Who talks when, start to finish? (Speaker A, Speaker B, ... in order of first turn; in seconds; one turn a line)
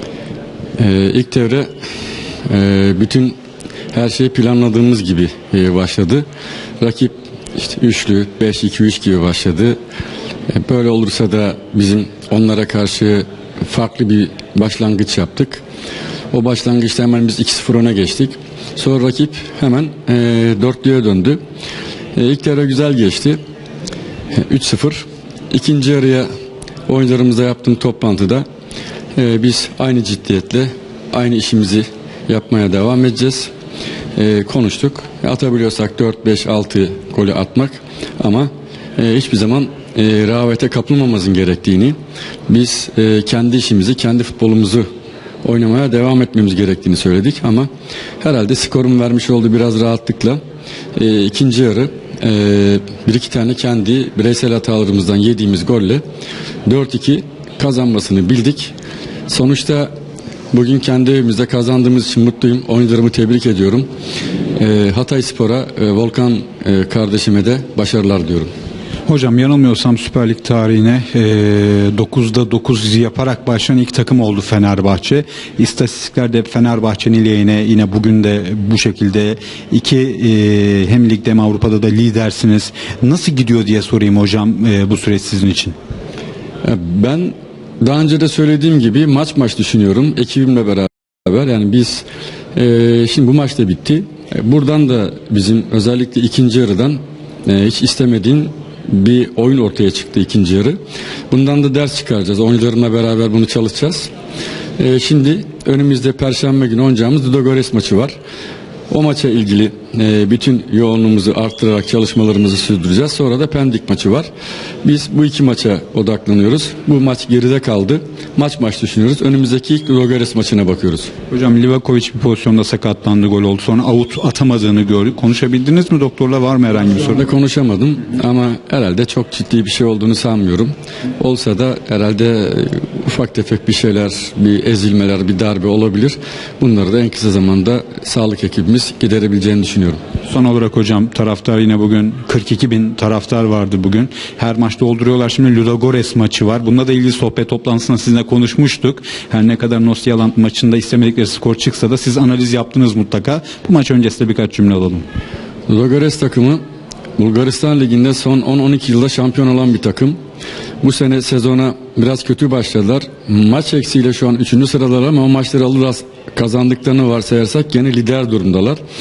Speaker A: 0.8-1.7
Speaker A: 2.5-3.3
Speaker A: 3.9-6.2
Speaker A: 6.8-9.8
Speaker A: 10.5-15.6
Speaker A: 16.3-21.4
Speaker A: 22.1-23.4
Speaker A: 24.4-26.3
Speaker A: 26.9-28.4
Speaker A: 29.1-33.5
Speaker A: 34.1-42.0
Speaker A: 42.5-44.9
Speaker A: 45.4-47.7
Speaker A: 48.2-50.4
Speaker A: 50.9-56.0
Speaker A: 56.6-58.7
Speaker A: 59.3-59.9
Speaker A: 60.5-63.9
Speaker A: 64.6-68.5
Speaker B: 69.1-85.7
Speaker A: 86.6-100.8
Speaker A: 101.3-104.1
Speaker A: 104.8-108.1
Speaker A: 108.9-114.3
Speaker A: 114.8-121.1
Speaker B: 121.3-127.2
Speaker A: 127.0-140.0
Speaker B: 140.3-155.0
Speaker A: 155.7-156.6
Speaker A: 157.2-160.2
Speaker A: 160.8-168.8